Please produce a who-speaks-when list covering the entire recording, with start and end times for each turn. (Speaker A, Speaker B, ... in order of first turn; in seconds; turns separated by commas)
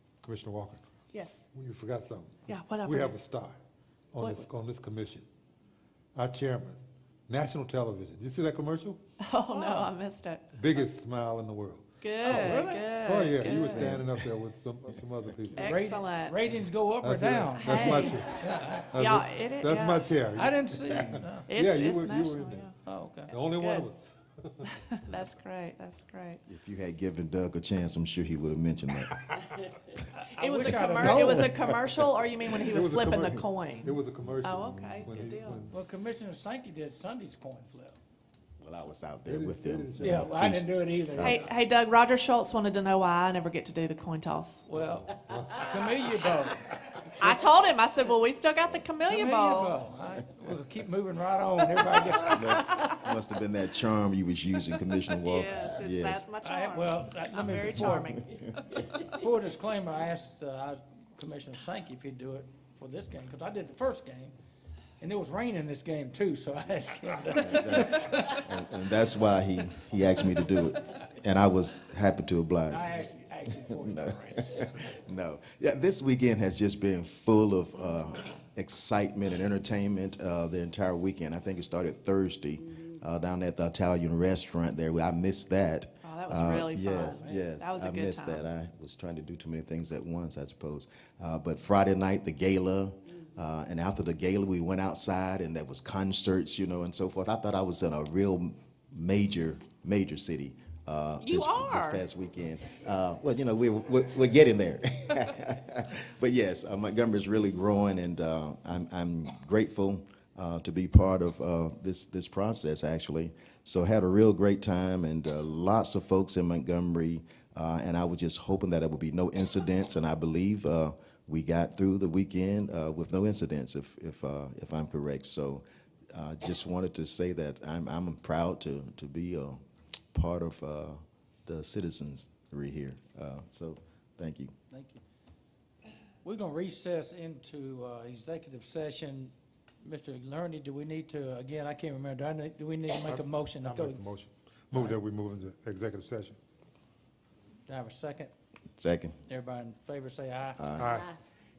Speaker A: 0.2-0.9, Speaker B: 1.1-1.4, Speaker A: 1.5-3.6, Speaker B: 2.5-3.1, Speaker A: 4.1-5.2, Speaker B: 4.2-4.4, Speaker A: 6.1-9.0, Speaker B: 9.2-10.4, Speaker C: 9.5-9.9, Speaker A: 10.5-15.7, Speaker B: 12.0-14.0, Speaker C: 12.2-13.6, Speaker D: 13.6-14.1, Speaker C: 15.5-18.9, Speaker B: 15.5-16.4, Speaker A: 17.0-22.6, Speaker B: 17.6-18.2, Speaker B: 18.9-20.1, Speaker C: 20.3-21.5, Speaker B: 21.5-22.7, Speaker C: 22.8-23.3, Speaker B: 23.3-23.9, Speaker A: 23.3-24.7, Speaker B: 24.7-26.4, Speaker D: 26.5-29.3, Speaker C: 30.1-31.5, Speaker B: 30.3-35.6, Speaker A: 32.6-35.8, Speaker C: 35.7-38.0, Speaker D: 38.6-41.5, Speaker A: 39.2-40.5, Speaker C: 40.0-41.5, Speaker B: 41.2-44.6, Speaker C: 44.6-47.1, Speaker A: 44.8-45.7, Speaker B: 47.1-49.8, Speaker C: 49.0-53.0, Speaker D: 52.2-56.2, Speaker B: 55.1-58.5, Speaker C: 56.4-58.2, Speaker D: 57.4-58.5, Speaker C: 58.9-64.3, Speaker C: 65.0-68.5, Speaker D: 67.3-72.9, Speaker C: 72.7-74.8, Speaker D: 73.5-129.6, Speaker B: 86.0-88.5, Speaker C: 86.9-87.4, Speaker B: 101.2-102.0, Speaker D: 130.1-134.5, Speaker C: 134.7-135.0, Speaker C: 136.2-144.0, Speaker A: 143.1-146.4, Speaker C: 147.7-148.3, Speaker D: 148.8-149.2, Speaker C: 149.3-150.7, Speaker D: 150.6-150.9, Speaker A: 150.8-151.2